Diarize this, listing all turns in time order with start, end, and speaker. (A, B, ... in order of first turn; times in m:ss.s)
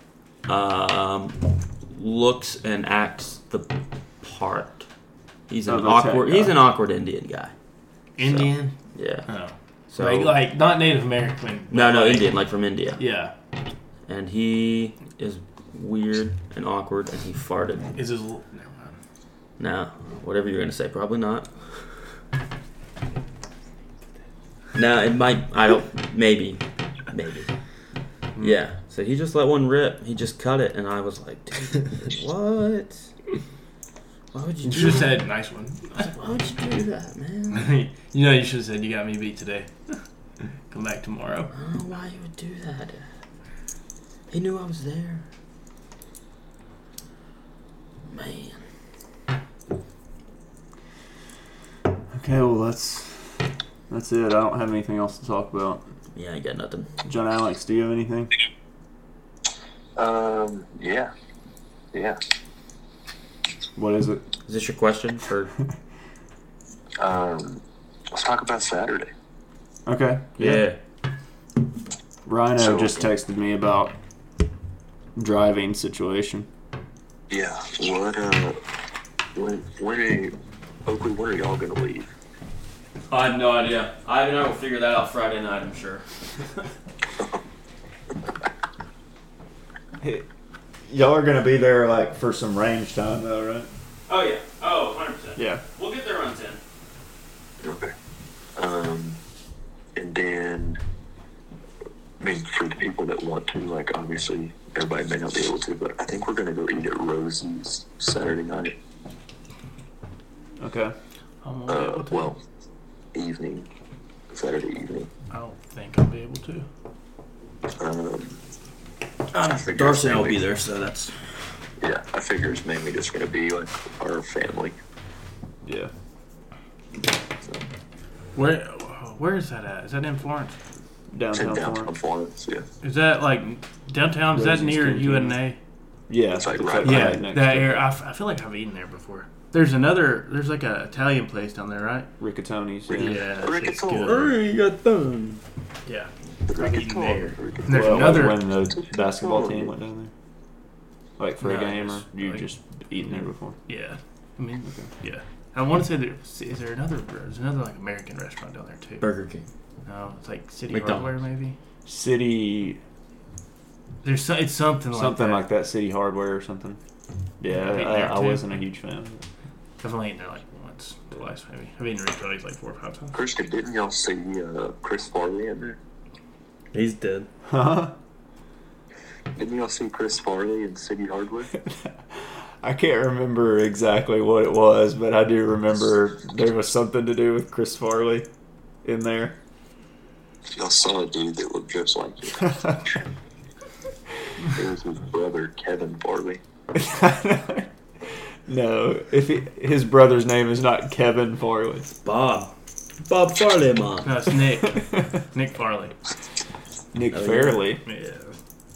0:00.5-0:04.8 A
0:05.5-0:07.5 A
0:05.7-0:06.6 B
0:08.2-0:08.7 C
0:08.2-0:09.3 A
0:09.3-0:12.3 C
0:09.9-0:10.4 A
0:11.7-0:13.0 A
0:13.0-0:13.3 C
0:14.1-0:17.9 A
0:17.9-0:19.0 C
0:19.6-0:21.9 A
0:24.7-0:27.5 A
0:28.4-0:33.1 A
0:34.3-0:35.2 A
0:34.6-0:36.1 C
0:35.9-0:37.7 A
0:37.5-0:39.9 C
0:40.7-0:41.5 C
0:41.5-0:43.1 A
0:44.3-0:45.2 A
0:48.1-0:48.6 A
0:52.1-0:53.3 B
0:53.9-0:55.8 B
0:56.1-0:56.9 A
0:57.0-0:58.3 B
1:00.0-1:01.1 D
1:01.9-1:02.2 D
1:03.8-1:04.2 B
1:04.5-1:05.5 A
1:07.0-1:09.1 D
1:09.8-1:10.7 B
1:10.4-1:10.8 A
1:12.2-1:14.0 B
1:12.6-1:13.0 D
1:15.2-1:16.5 B
1:17.3-1:18.6 D
1:19.3-1:20.3 D
1:20.8-1:22.1 D
1:23.1-1:26.0 A
1:30.0-1:30.2 B
1:30.9-1:33.7 B
1:34.1-1:36.6 A
1:35.4-1:35.6 B
1:37.6-1:37.9 D
1:38.6-1:39.2 D
1:40.0-1:40.8 D
1:42.2-1:48.8 D
1:50.6-1:50.9 B
1:51.4-1:52.3 C
1:51.7-1:52.4 D
1:53.1-1:53.7 D
1:54.3-1:55.1 D
1:55.3-1:56.6 C
1:57.8-1:58.4 D
1:59.3-2:01.1 A
1:59.4-2:00.4 D
2:01.8-2:04.8 D
2:05.6-2:05.9 B
2:08.3-2:10.6 C
2:11.1-2:11.9 B
2:11.3-2:12.7 D
2:12.8-2:15.6 C
2:14.3-2:15.4 B
2:16.1-2:17.8 B
2:16.3-2:17.2 D
2:16.8-2:22.1 C
2:22.2-2:23.2 B
2:22.9-2:24.3 D
2:22.9-2:24.3 C
2:24.0-2:25.4 A
2:25.8-2:28.4 C
2:26.4-2:29.7 D
2:27.7-2:30.1 B
2:31.2-2:33.6 B
2:31.4-2:32.4 C
2:33.7-2:39.1 C
2:39.0-2:39.4 A
2:39.8-2:41.6 C
2:40.7-2:41.1 A
2:41.8-2:42.8 B
2:44.0-2:45.5 C
2:44.9-2:46.8 B
2:47.4-2:49.2 B
2:47.5-2:48.5 C
2:49.8-2:53.2 C
2:53.1-2:55.8 D
2:56.7-2:57.3 A
2:57.5-2:57.9 B
2:59.4-3:01.5 D
3:02.6-3:08.3 B
3:08.8-3:09.4 B
3:10.5-3:13.0 D
3:12.5-3:12.7 B
3:14.4-3:16.4 D
3:16.7-3:17.7 B
3:18.5-3:21.9 B
3:22.0-3:22.5 A
3:23.0-3:24.1 A
3:24.0-3:25.9 C
3:26.9-3:27.8 B
3:27.1-3:27.6 A
3:27.8-3:28.4 C